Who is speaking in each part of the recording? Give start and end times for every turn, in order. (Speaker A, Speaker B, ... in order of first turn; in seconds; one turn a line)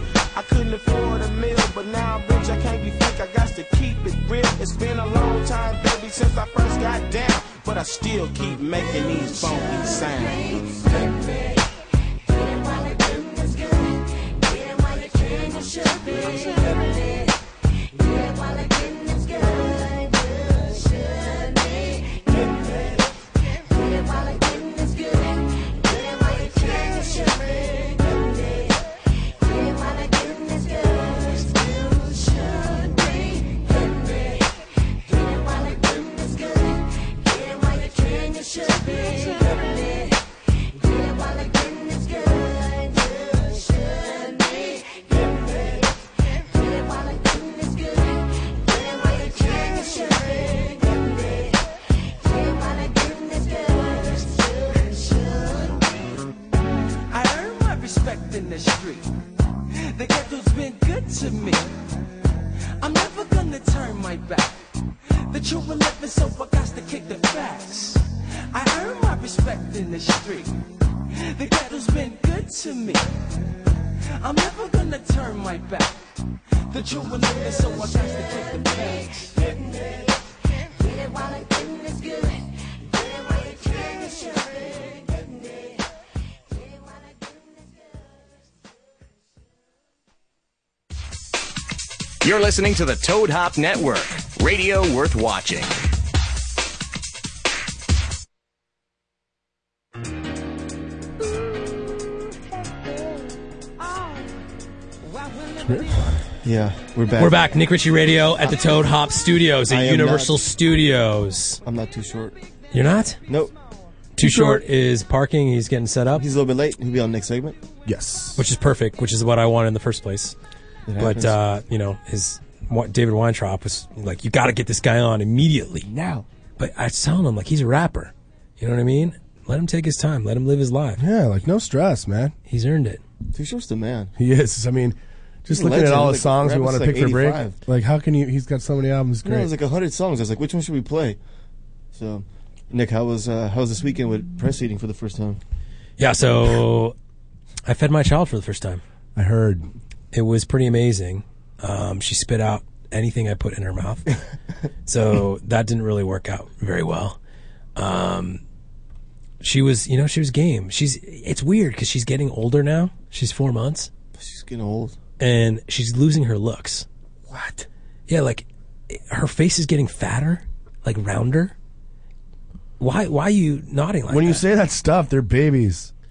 Speaker A: 0.3-10.6
Speaker B: 57.1-59.1
Speaker B: 59.9-61.8
Speaker B: 62.8-64.6
Speaker B: 65.3-70.6
Speaker B: 71.3-73.1
Speaker B: 74.2-76.0
Speaker B: 76.7-79.4
Speaker C: 92.2-95.8
Speaker D: 105.6-106.2
Speaker E: 106.4-107.5
Speaker F: 107.2-111.6
Speaker E: 108.5-108.8
Speaker E: 109.7-110.4
Speaker E: 111.6-112.4
Speaker F: 112.7-113.2
Speaker E: 113.3-113.5
Speaker F: 114.2-116.2
Speaker D: 114.2-114.6
Speaker E: 116.1-117.6
Speaker D: 117.8-118.4
Speaker F: 118.3-120.3
Speaker E: 120.9-121.4
Speaker F: 121.0-125.9
Speaker E: 125.8-126.2
Speaker F: 126.6-131.0
Speaker D: 131.0-132.3
Speaker F: 132.5-133.0
Speaker E: 133.3-134.1
Speaker D: 134.2-139.5
Speaker E: 135.5-137.6
Speaker E: 139.2-141.2
Speaker E: 141.9-145.4
Speaker F: 146.0-146.9
Speaker F: 147.7-148.8
Speaker D: 149.2-149.7
Speaker F: 150.1-154.1
Speaker F: 154.8-157.2
Speaker F: 157.8-158.4
Speaker F: 159.4-163.9
Speaker E: 164.2-164.9
Speaker F: 165.2-166.8
Speaker F: 168.1-171.5
Speaker F: 172.8-174.4
Speaker D: 174.1-175.9